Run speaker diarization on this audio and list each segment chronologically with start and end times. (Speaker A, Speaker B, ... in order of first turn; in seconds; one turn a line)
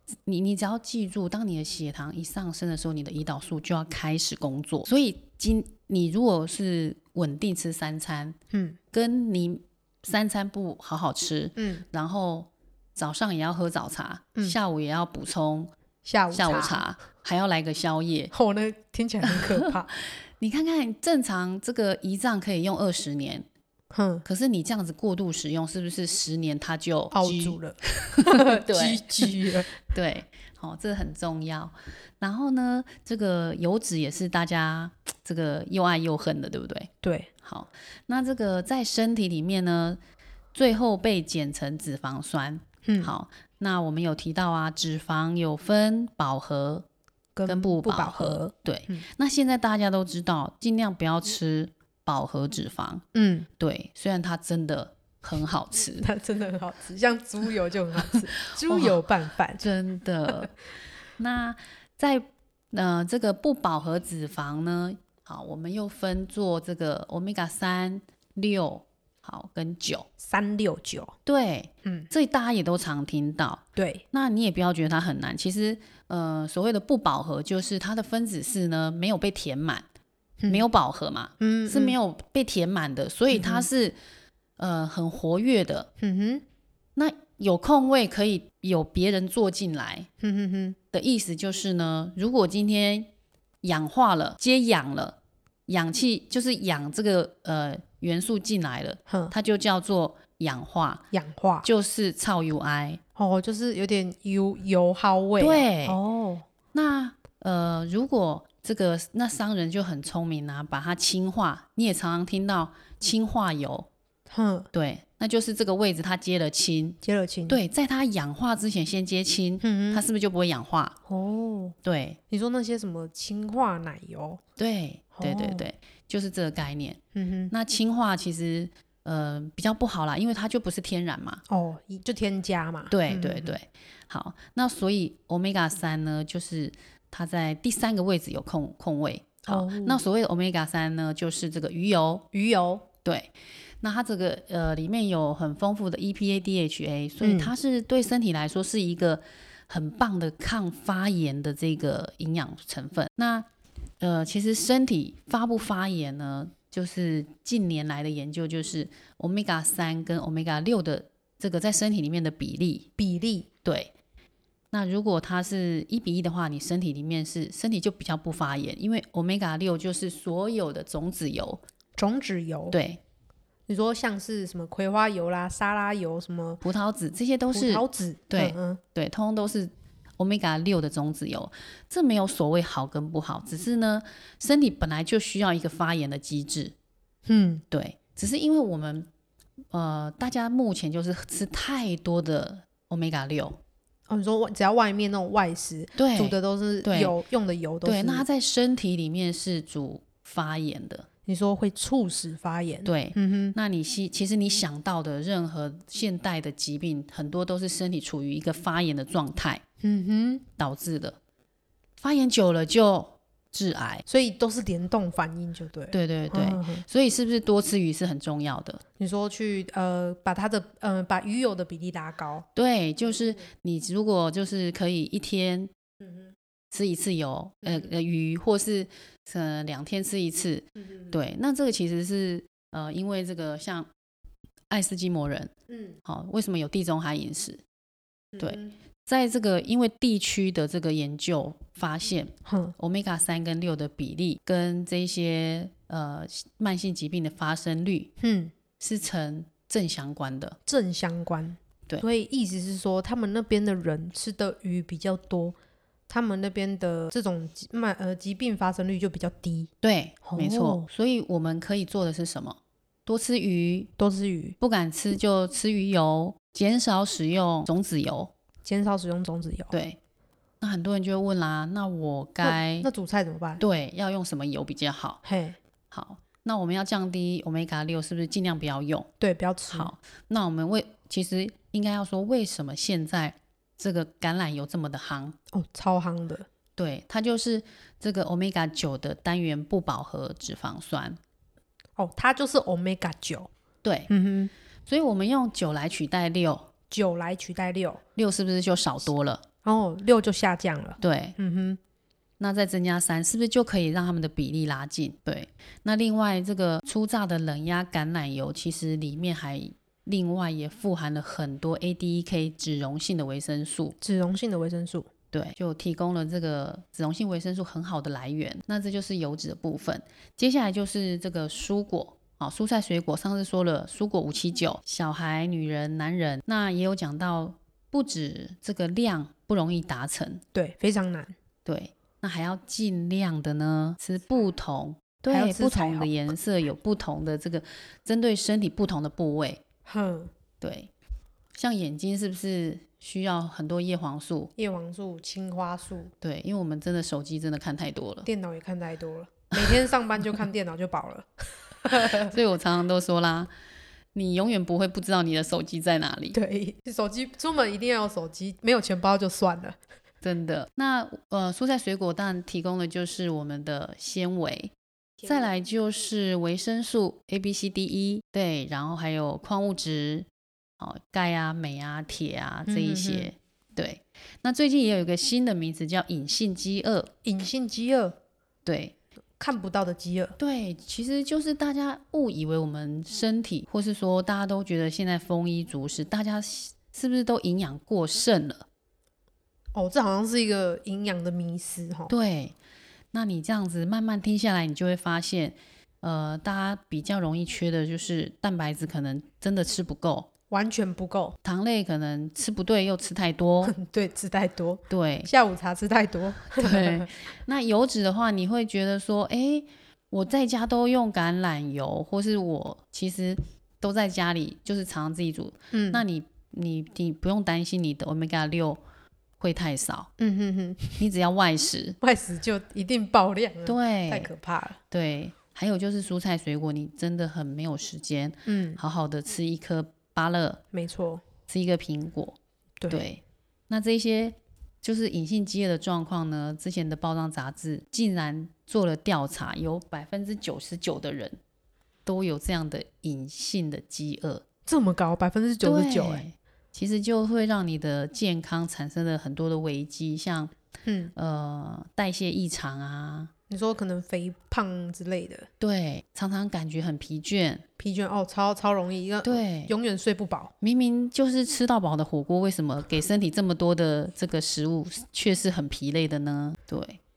Speaker A: 0.2-8.4
Speaker B: 8.5-8.8
Speaker A: 8.9-15.7
Speaker B: 11.6-11.8
Speaker B: 16.0-16.8
Speaker A: 16.3-18.3
Speaker B: 18.3-19.9
Speaker A: 19.2-23.4
Speaker B: 23.9-24.2
Speaker A: 24.2-40.0
Speaker B: 27.1-29.7
Speaker B: 37.0-37.3
Speaker A: 40.5-46.9
Speaker B: 42.8-43.1
Speaker B: 47.4-49.0
Speaker A: 47.5-53.0
Speaker B: 53.1-53.5
Speaker A: 53.6-56.1
Speaker B: 55.9-59.6
Speaker A: 58.1-59.0
Speaker A: 59.5-60.6
Speaker A: 61.2-70.1
Speaker B: 70.2-71.1
Speaker A: 71.2-79.8
Speaker B: 71.8-72.1
Speaker B: 73.8-74.0
Speaker A: 80.5-84.0
Speaker B: 81.4-82.0
Speaker B: 83.3-83.7
Speaker A: 84.6-85.9
Speaker B: 86.0-86.4
Speaker A: 87.0-90.1
Speaker B: 90.2-90.8
Speaker A: 90.9-93.1
Speaker A: 93.6-101.0
Speaker B: 99.1-99.3
Speaker B: 101.1-101.7
Speaker A: 101.6-103.0
Speaker B: 103.2-106.5
Speaker A: 105.4-106.0
Speaker A: 106.7-113.9
Speaker B: 114.3-114.7
Speaker A: 114.7-121.0
Speaker B: 117.0-117.6
Speaker B: 119.6-120.0
Speaker B: 121.1-121.8
Speaker A: 121.8-122.2
Speaker B: 122.3-124.4
Speaker A: 124.6-131.4
Speaker B: 125.2-125.7
Speaker B: 127.1-127.5
Speaker B: 131.5-133.6
Speaker A: 132.9-142.2
Speaker B: 139.4-140.0
Speaker B: 142.3-142.9
Speaker A: 142.9-153.5
Speaker B: 147.2-147.5
Speaker A: 154.0-162.9
Speaker B: 163.0-163.5
Speaker A: 163.6-163.9
Speaker A: 164.7-171.6
Speaker B: 172.0-172.8
Speaker A: 172.7-173.0
Speaker B: 173.7-176.6
Speaker A: 176.6-186.7
Speaker B: 177.5-178.8
Speaker B: 187.2-187.6
Speaker A: 187.7-189.1
Speaker A: 189.7-193.6
Speaker B: 194.1-198.3
Speaker A: 195.9-197.1
Speaker A: 197.8-201.1
Speaker B: 201.2-203.6
Speaker A: 202.8-209.6
Speaker B: 209.8-210.4
Speaker A: 210.6-211.2
Speaker A: 212.0-214.0
Speaker B: 214.1-216.8
Speaker A: 215.9-218.8
Speaker B: 219.0-222.4
Speaker A: 222.5-225.7
Speaker A: 226.7-233.9
Speaker A: 234.7-235.5
Speaker A: 236.0-237.6
Speaker B: 238.4-238.6
Speaker A: 238.4-248.1
Speaker B: 242.4-242.7
Speaker B: 248.2-248.5
Speaker A: 248.8-250.6
Speaker B: 250.7-255.6
Speaker B: 256.1-259.7
Speaker A: 259.8-263.9
Speaker B: 260.2-260.9
Speaker B: 264.0-264.6
Speaker A: 264.6-268.3
Speaker B: 268.6-269.7
Speaker A: 269.7-270.0
Speaker A: 270.6-272.9
Speaker B: 272.4-273.6
Speaker A: 273.6-275.2
Speaker B: 275.2-275.6
Speaker A: 275.9-279.1
Speaker B: 279.2-279.9
Speaker A: 279.7-285.4
Speaker B: 285.5-286.4
Speaker A: 286.8-291.2
Speaker B: 292.0-293.5
Speaker A: 293.8-294.1
Speaker B: 294.1-294.5
Speaker A: 294.9-296.7
Speaker B: 296.9-298.0
Speaker A: 298.1-299.4
Speaker B: 299.6-301.8
Speaker A: 301.0-301.4
Speaker A: 302.4-313.9
Speaker B: 314.0-315.1
Speaker A: 315.3-330.4
Speaker B: 330.5-331.3
Speaker A: 331.6-339.6
Speaker B: 335.3-336.2
Speaker B: 339.8-340.3
Speaker A: 340.6-340.9
Speaker A: 341.5-344.5
Speaker B: 344.6-346.1
Speaker A: 346.2-348.3
Speaker B: 348.2-352.4
Speaker A: 349.5-350.4
Speaker A: 352.1-353.5
Speaker A: 354.1-356.4
Speaker B: 356.3-359.8
Speaker A: 360.2-370.3
Speaker A: 370.8-377.1
Speaker B: 372.6-373.3
Speaker B: 377.2-378.1
Speaker A: 378.6-378.9
Speaker B: 379.4-380.4
Speaker A: 380.4-388.7
Speaker B: 389.7-392.1
Speaker A: 392.1-392.5
Speaker A: 393.1-400.3
Speaker B: 400.5-401.4
Speaker A: 401.4-403.7
Speaker B: 403.6-407.1
Speaker A: 404.9-405.3
Speaker A: 406.5-418.8
Speaker B: 415.7-416.0
Speaker A: 419.4-420.1
Speaker B: 420.2-421.1
Speaker A: 421.0-422.0
Speaker B: 422.0-424.8
Speaker A: 423.6-424.3
Speaker A: 424.9-430.6
Speaker B: 428.4-428.8
Speaker B: 430.7-431.2
Speaker A: 431.5-432.4
Speaker B: 432.8-433.1
Speaker A: 432.9-441.4
Speaker A: 442.1-444.4
Speaker B: 444.6-446.3
Speaker A: 445.6-450.5
Speaker B: 450.9-451.1
Speaker A: 451.1-453.3
Speaker B: 453.5-455.5
Speaker A: 455.6-457.6
Speaker B: 457.8-460.5
Speaker A: 459.2-459.7
Speaker A: 460.6-467.0